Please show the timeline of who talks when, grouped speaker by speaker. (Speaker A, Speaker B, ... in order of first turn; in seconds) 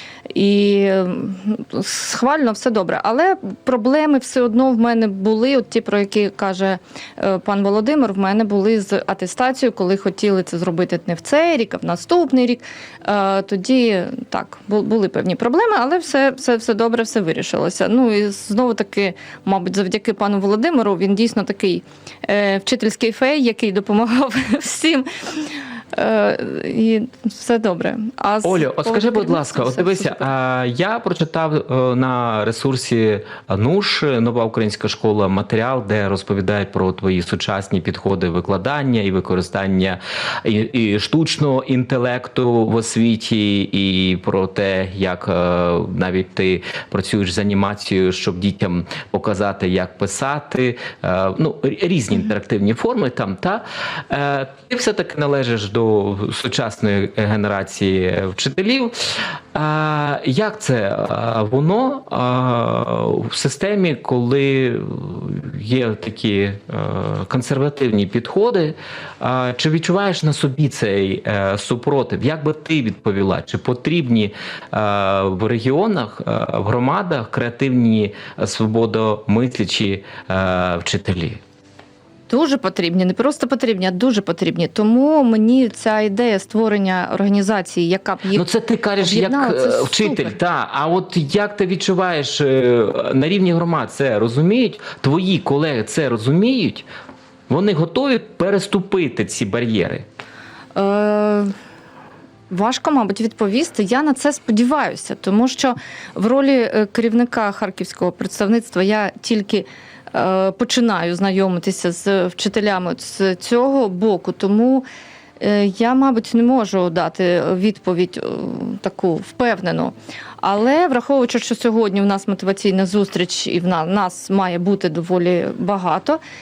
Speaker A: 0.3-30.3, 82.3-88.4, 89.0-90.3, 100.8-101.5, 102.5-114.8, 115.4-126.2
Speaker B: 28.4-58.9, 59.5-81.4, 88.3-96.8, 97.5-100.0